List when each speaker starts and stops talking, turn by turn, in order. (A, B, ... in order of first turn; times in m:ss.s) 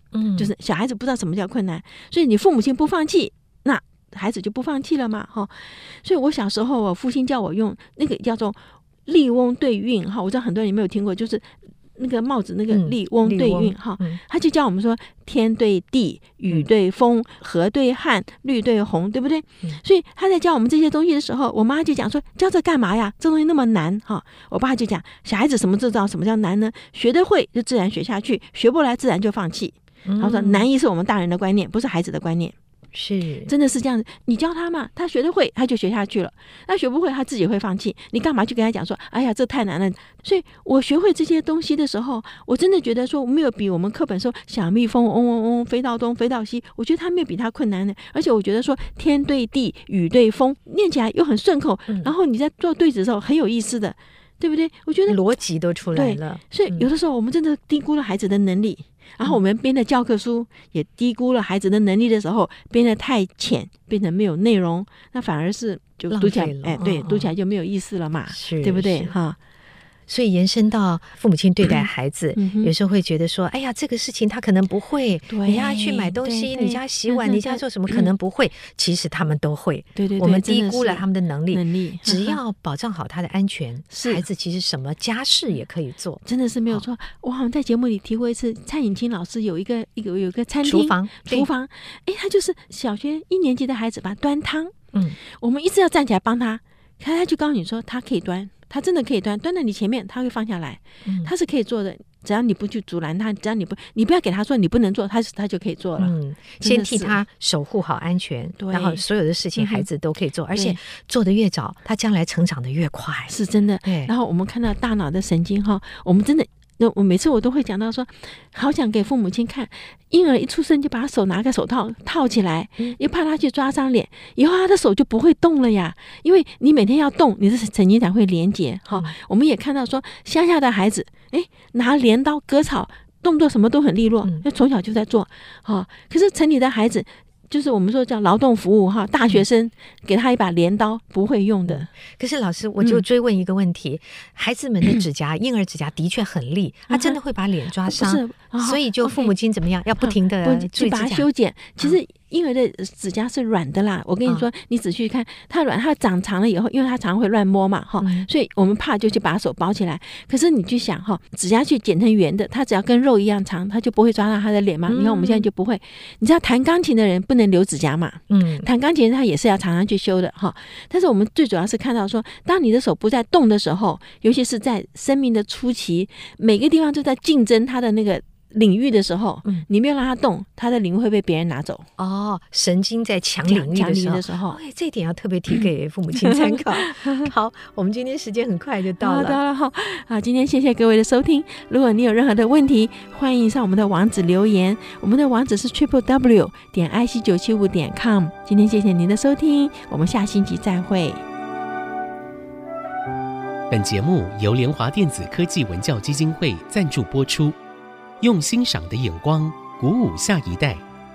0:00.1-0:00.5 A
0:00.4-0:32.5 B
0:12.7-0:14.2 A
0:30.0-0:30.6 A
0:32.9-0:33.5 A
0:33.4-0:55.2 B
0:55.1-0:56.9 A
0:55.9-1:09.4 B
1:06.1-1:07.3 A
1:08.3-1:09.1 A
1:10.1-1:26.8 A
1:11.6-1:12.7 B
1:15.3-1:18.1 B
1:20.0-1:22.4 B
1:23.9-1:24.2 B
1:26.2-1:47.2 B
1:30.6-1:31.5 A
1:34.9-1:35.2 A
1:41.0-1:41.3 A
1:46.0-1:53.3 A
1:48.6-1:49.0 B
1:49.6-1:49.8 B
1:50.5-1:50.8 B
1:53.3-2:21.9 B
1:53.8-1:54.1 A
2:21.7-2:31.3 A
2:26.9-2:27.2 B
2:27.8-2:29.3 B
2:30.0-3:01.9 B
2:38.0-2:38.3 A
2:44.9-2:45.5 A
2:48.3-2:48.7 A
3:02.0-3:09.4 A
3:03.4-3:04.6 B
3:06.1-3:07.3 B
3:09.0-3:21.2 B
3:23.7-3:27.6 C
3:28.2-3:30.8 C